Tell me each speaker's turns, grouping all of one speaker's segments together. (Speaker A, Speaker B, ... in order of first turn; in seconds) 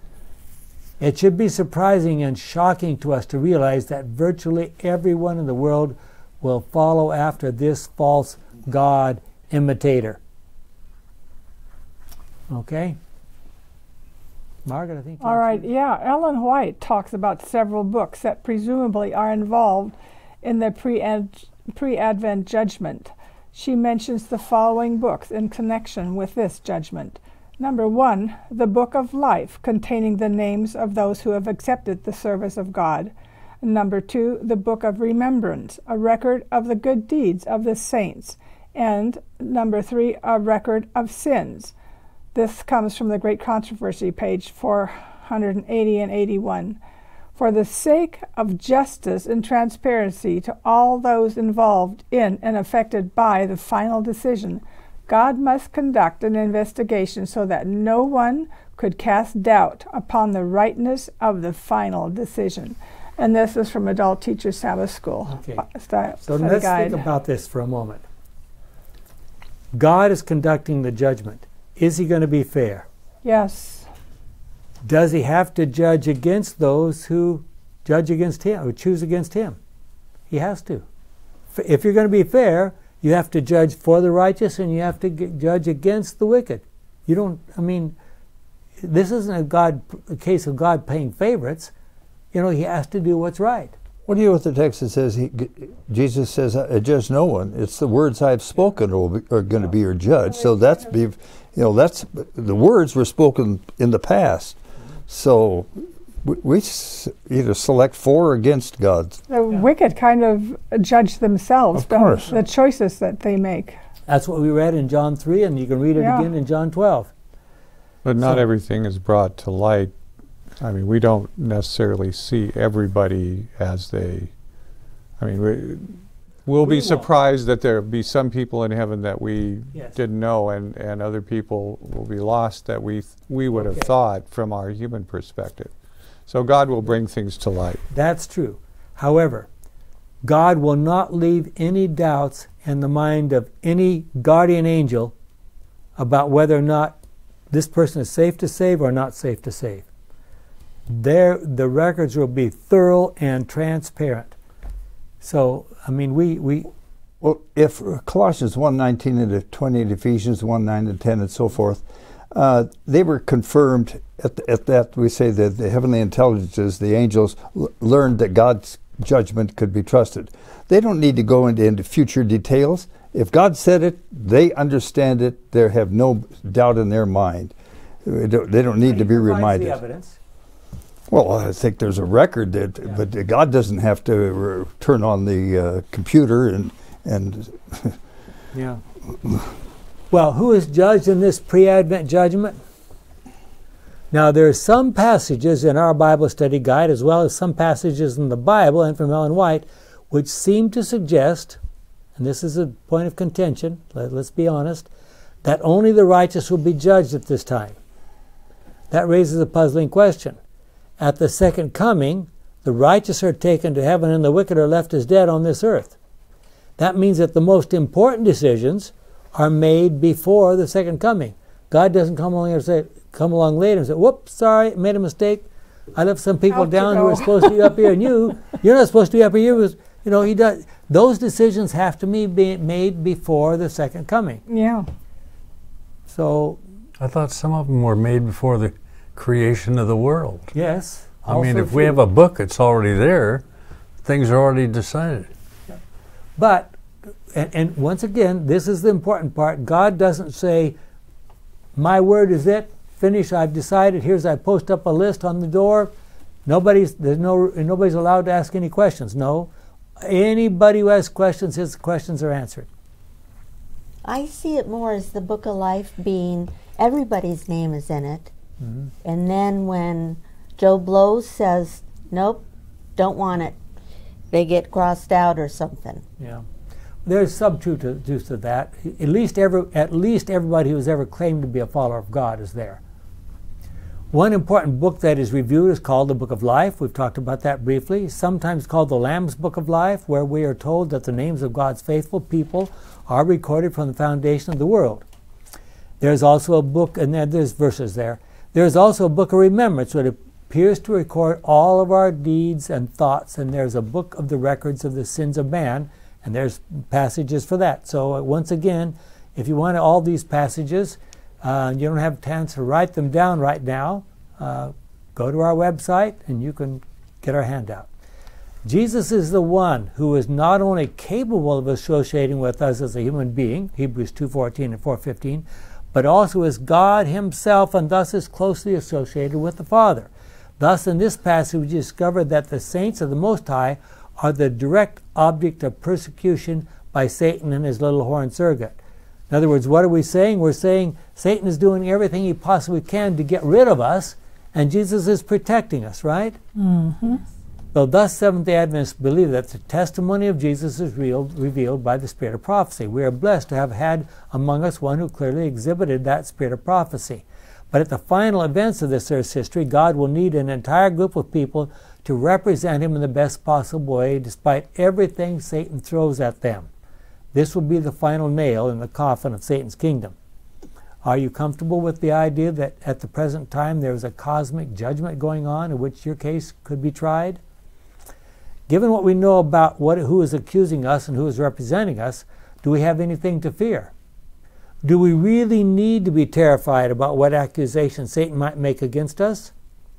Speaker A: 1.0-10.2, 12.5-13.0, 14.7-15.7, 65.3-65.7, 66.2-68.0, 69.7-72.9, 74.8-79.6, 80.3-80.8, 81.5-88.0, 88.8-91.7, 92.3-93.8, 114.1-117.1, 118.2-118.4, 126.6-127.1, 133.5-133.9, 137.9-139.5, 140.2-145.1, 146.0-147.0, 147.5-149.9, 150.9-154.4, 155.2-156.7, 178.8-180.2, 188.5-188.8, 190.1-192.6, 194.1-201.6, 202.2-204.9, 205.4-207.8, 208.9-210.4, 211.0-216.0, 216.8-234.4, 236.1-236.6, 240.5-242.0, 246.4-246.7, 247.3-250.8, 251.8-255.9, 256.5-259.5, 260.0-262.7, 268.6-268.9, 277.1-282.8, 284.1-295.1, 296.0-317.9, 318.6-338.8, 339.3-346.4, 347.7-366.7, 367.3-370.1, 371.0-377.4, 378.7-383.9, 384.8-389.5
Speaker B: 15.2-41.7, 42.3-46.8, 47.4-67.0, 73.2-73.9, 109.3-113.8, 116.0-116.3, 226.5-227.9, 234.5-234.9, 346.6-347.2
Speaker C: 94.1-109.2, 111.7-112.3, 157.2-179.8, 181.1-188.0
Speaker D: 118.0-119.9, 120.6-124.3, 125.2-135.7, 136.3-137.8
Speaker E: 237.0-240.5, 241.2-243.4, 244.0-245.3
Speaker F: 264.0-268.3, 269.0-273.6, 274.3-276.0